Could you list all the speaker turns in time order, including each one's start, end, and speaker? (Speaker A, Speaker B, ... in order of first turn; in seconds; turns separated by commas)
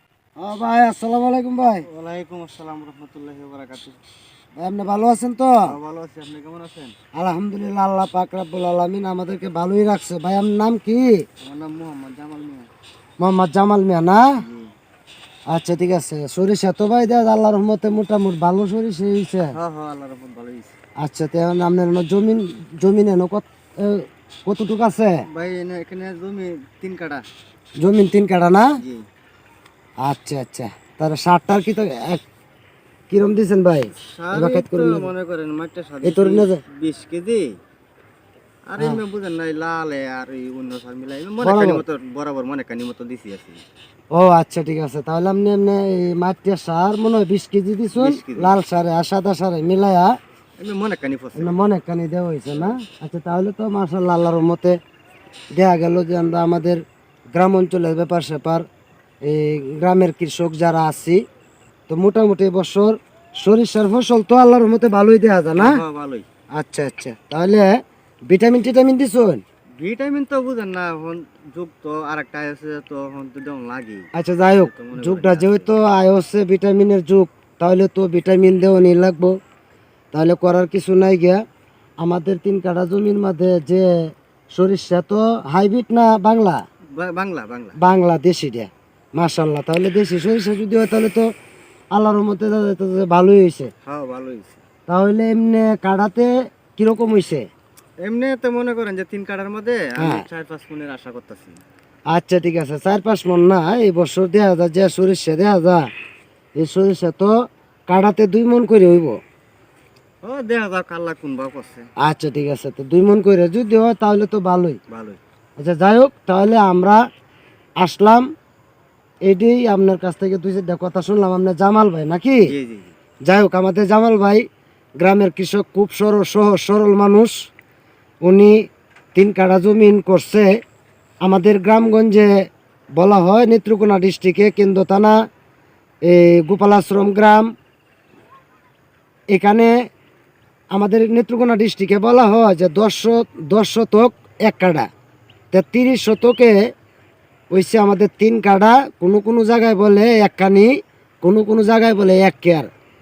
Speaker A: 0.4-1.9, Speaker B: 1.9-4.0, Speaker A: 4.6-5.6, Speaker B: 5.7-7.0, Speaker A: 7.2-11.2, Speaker B: 11.4-12.7, Speaker A: 13.2-14.3, Speaker B: 14.4-14.7, Speaker A: 15.5-19.6, Speaker B: 19.5-20.8, Speaker A: 21.0-25.2, Speaker B: 25.3-27.2, Speaker A: 27.8-28.7, Speaker B: 28.8-29.1, Speaker A: 30.0-32.2, Speaker A: 33.1-35.1, Speaker B: 34.0-37.6, Speaker A: 36.0-36.6, Speaker B: 38.7-43.6, Speaker A: 41.4-41.8, Speaker A: 44.1-50.1, Speaker B: 48.0-48.6, Speaker B: 50.6-51.6, Speaker A: 51.4-54.8, Speaker B: 52.5-52.8, Speaker A: 55.5-56.8, Speaker A: 57.4-58.6, Speaker A: 59.2-61.2, Speaker A: 61.9-65.8, Speaker B: 65.6-66.3, Speaker A: 66.6-67.7, Speaker A: 68.3-69.4, Speaker B: 69.8-75.7, Speaker A: 74.1-79.3, Speaker A: 80.1-81.4, Speaker A: 82.0-86.6, Speaker B: 87.0-87.8, Speaker A: 87.8-91.3, Speaker A: 91.9-93.7, Speaker B: 93.9-94.6, Speaker A: 94.9-97.5, Speaker B: 98.0-101.6, Speaker A: 100.0-100.2, Speaker A: 102.1-105.8, Speaker A: 106.6-107.3, Speaker A: 107.9-109.2, Speaker B: 110.2-111.9, Speaker A: 112.0-114.8, Speaker B: 114.9-115.2, Speaker A: 115.6-117.0, Speaker A: 117.8-118.3, Speaker A: 119.3-122.5, Speaker B: 122.5-122.9, Speaker A: 123.3-124.4, Speaker A: 125.0-127.5, Speaker A: 128.2-128.6, Speaker A: 129.2-130.5, Speaker A: 131.2-132.3, Speaker A: 133.0-135.1, Speaker A: 136.1-137.5, Speaker A: 139.3-139.7, Speaker A: 140.7-144.9, Speaker A: 145.5-146.6, Speaker A: 147.5-150.7, Speaker A: 151.2-152.7